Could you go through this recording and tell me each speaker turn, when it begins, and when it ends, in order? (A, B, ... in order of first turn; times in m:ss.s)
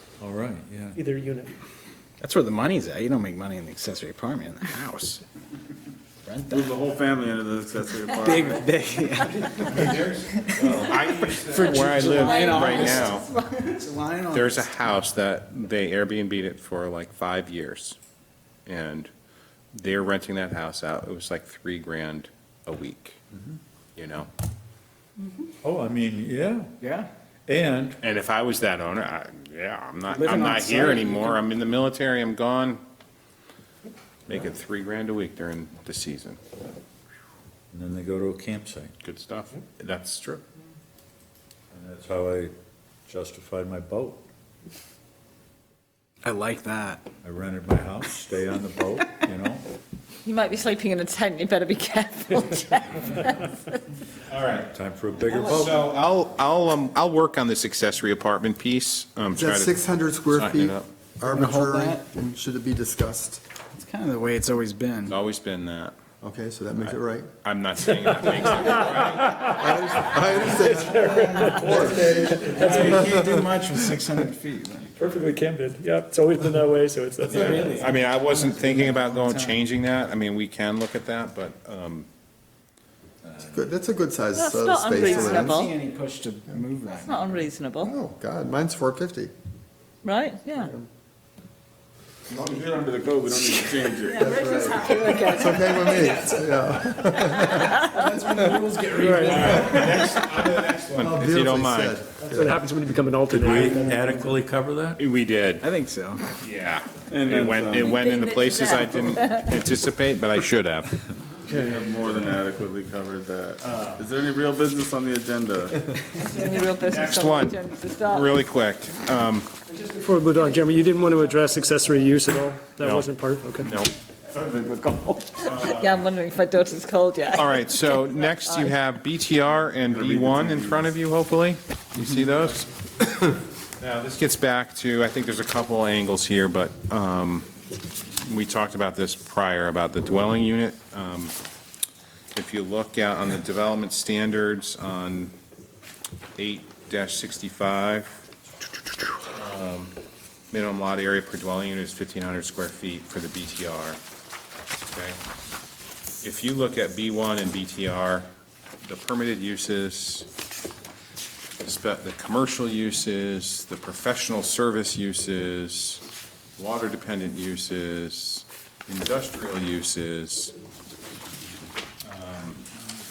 0:00.2-0:01.0 A
0:00.9-0:01.5 B
0:02.2-0:05.2 C
0:06.2-0:06.7 C
0:06.5-0:08.7 D
0:08.1-0:10.0 C
0:09.4-0:13.3 E
0:10.5-0:14.7 C
0:11.6-0:13.6 F
0:14.3-0:18.0 E
0:18.6-0:19.1 E
0:19.7-0:23.2 E
0:24.0-0:24.3 E
0:25.6-0:26.7 A
0:26.8-0:27.1 C
0:27.5-0:28.0 A
0:28.0-0:32.8 E
0:30.1-0:31.4 C
0:34.3-0:36.4 E
0:37.7-0:38.9 A
0:39.0-0:40.4 E
0:41.7-0:42.5 A
0:43.1-0:44.2 A
0:46.2-0:47.1 C
0:47.2-0:49.6 A
0:50.2-0:53.6 F
0:54.3-0:54.7 E
0:54.7-0:55.8 A
0:55.2-0:55.8 F
0:55.5-1:00.9 E
0:59.3-1:03.4 G
1:01.2-1:02.1 C
1:03.7-1:05.2 C
1:05.1-1:06.0 E
1:06.2-1:07.3 G
1:06.8-1:09.8 E
1:08.0-1:13.1 B
1:09.6-1:13.4 G
1:10.6-1:14.9 C
1:15.0-1:17.7 B
1:17.3-1:19.6 C
1:17.3-1:22.1 E
1:23.4-1:25.6 G
1:24.4-1:25.8 F
1:25.2-1:27.4 C
1:26.9-1:27.9 F
1:27.8-1:29.3 G
1:30.0-1:30.7 F
1:30.6-1:30.9 G
1:32.3-1:34.3 D
1:34.1-1:36.4 F
1:34.2-1:40.2 G
1:37.6-1:38.5 F
1:38.7-1:39.6 C
1:38.9-1:39.6 B
1:39.2-1:42.0 E
1:40.9-1:42.6 G
1:42.2-1:44.3 B
1:43.3-1:45.0 A
1:45.0-1:45.7 E
1:45.6-1:46.2 C
1:46.4-1:51.0 E
1:47.1-1:48.0 D
1:47.8-1:49.5 F
1:51.5-1:56.0 D
1:53.6-1:54.0 E
1:56.2-1:58.4 F
1:56.8-1:59.5 E
1:59.7-2:03.7 B
2:02.8-2:03.1 E
2:03.6-2:03.9 E
2:04.4-2:05.1 C
2:05.4-2:08.7 F
2:05.4-2:06.1 E
2:07.3-2:17.5 E
2:09.7-2:10.9 D
2:18.2-2:21.4 E
2:22.3-2:25.3 E
2:26.4-2:28.2 E
2:29.3-2:29.9 E
2:30.5-2:34.0 E
2:34.9-2:35.2 E
2:36.2-2:38.3 E
2:38.8-2:40.3 E
2:41.6-2:46.0 E
2:46.6-2:50.5 E
2:52.0-2:52.6 E